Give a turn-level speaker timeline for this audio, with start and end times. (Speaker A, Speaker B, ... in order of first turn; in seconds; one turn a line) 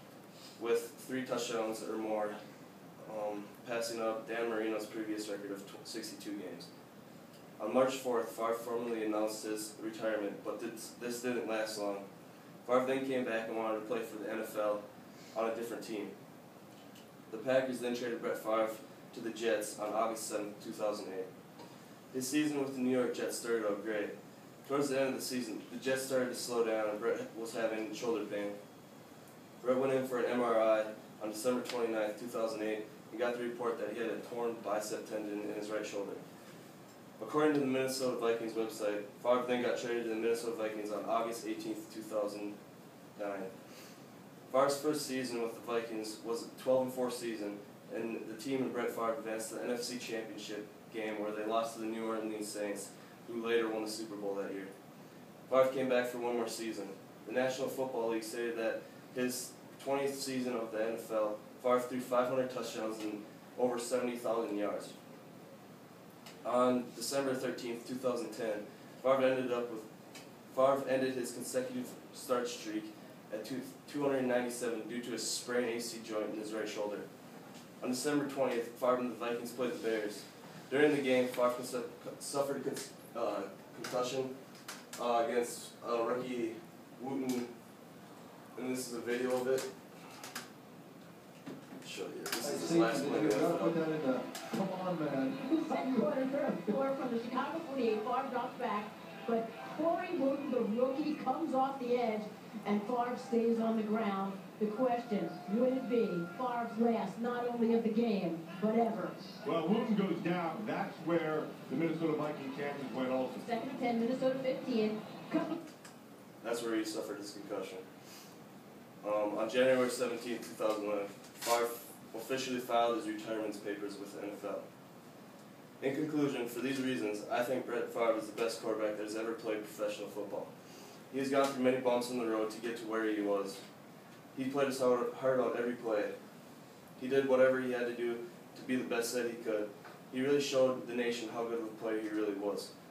Speaker A: 0.6-2.3
Speaker A: 3.0-6.7
Speaker A: 7.6-12.1
Speaker A: 12.6-14.8
Speaker A: 15.3-16.1
Speaker A: 17.3-21.3
Speaker A: 22.1-28.5
Speaker A: 29.6-36.2
Speaker A: 37.2-42.5
Speaker A: 43.2-43.5
Speaker A: 44.5-54.7
Speaker A: 55.5-64.9
Speaker A: 66.4-69.9
Speaker A: 70.5-77.1
Speaker A: 77.8-84.3
Speaker A: 85.0-87.5
Speaker A: 88.5-89.7
Speaker A: 91.8-93.8
Speaker B: 92.4-96.1
Speaker C: 95.5-109.2
Speaker D: 109.4-113.5
Speaker C: 113.4-115.6
Speaker A: 116.4-117.8
Speaker A: 119.0-124.7
Speaker A: 125.8-130.5
Speaker A: 131.1-133.6
Speaker A: 134.3-136.1
Speaker A: 137.0-142.7